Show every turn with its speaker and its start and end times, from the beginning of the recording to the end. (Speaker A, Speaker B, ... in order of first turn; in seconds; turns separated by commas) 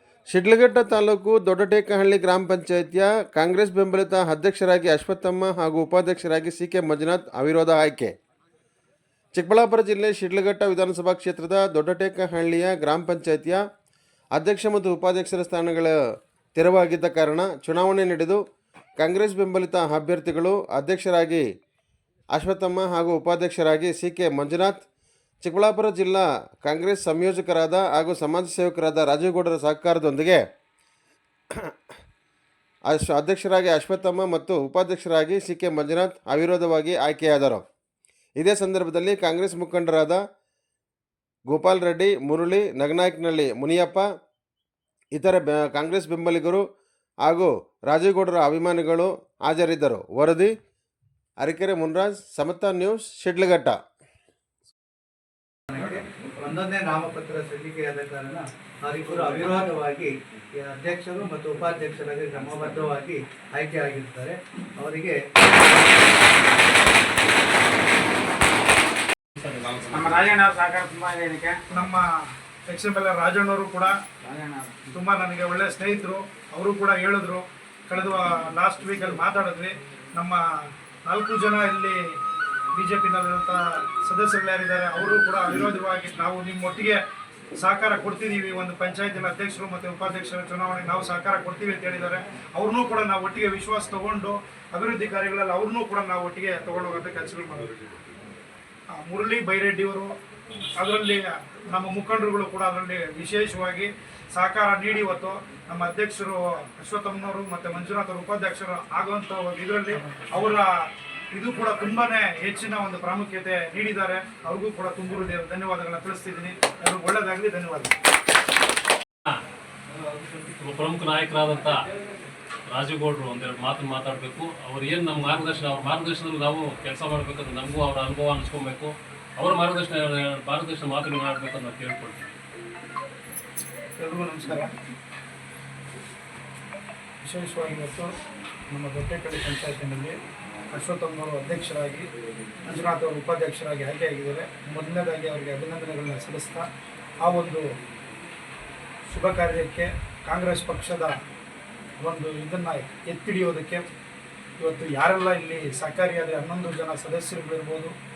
Speaker A: 0.3-8.1, Speaker A: 9.3-13.6, Speaker A: 14.3-15.9, Speaker A: 16.5-18.4, Speaker A: 19.0-21.4, Speaker A: 22.3-24.8, Speaker A: 25.4-30.4, Speaker A: 32.9-37.6, Speaker A: 38.4-40.2, Speaker A: 41.5-44.1, Speaker A: 45.1-46.6, Speaker A: 47.2-50.5, Speaker A: 51.4-53.8, Speaker B: 55.7-65.9, Speaker C: 69.6-71.6, Speaker D: 71.7-72.0, Speaker D: 72.7-73.9, Speaker C: 74.2-74.8, Speaker D: 74.9-80.4, Speaker D: 81.1-82.0, Speaker D: 82.7-87.0, Speaker D: 87.6-97.8, Speaker D: 99.0-100.1, Speaker D: 100.8-110.7, Speaker D: 111.3-117.9, Speaker E: 120.2-121.8, Speaker E: 122.7-132.3, Speaker D: 134.0-134.7, Speaker D: 137.2-138.1, Speaker D: 138.7-140.2, Speaker D: 140.7-142.1, Speaker D: 142.7-146.7, Speaker D: 147.2-147.7, Speaker D: 149.1-151.2, Speaker D: 152.0-153.9, Speaker D: 154.6-157.9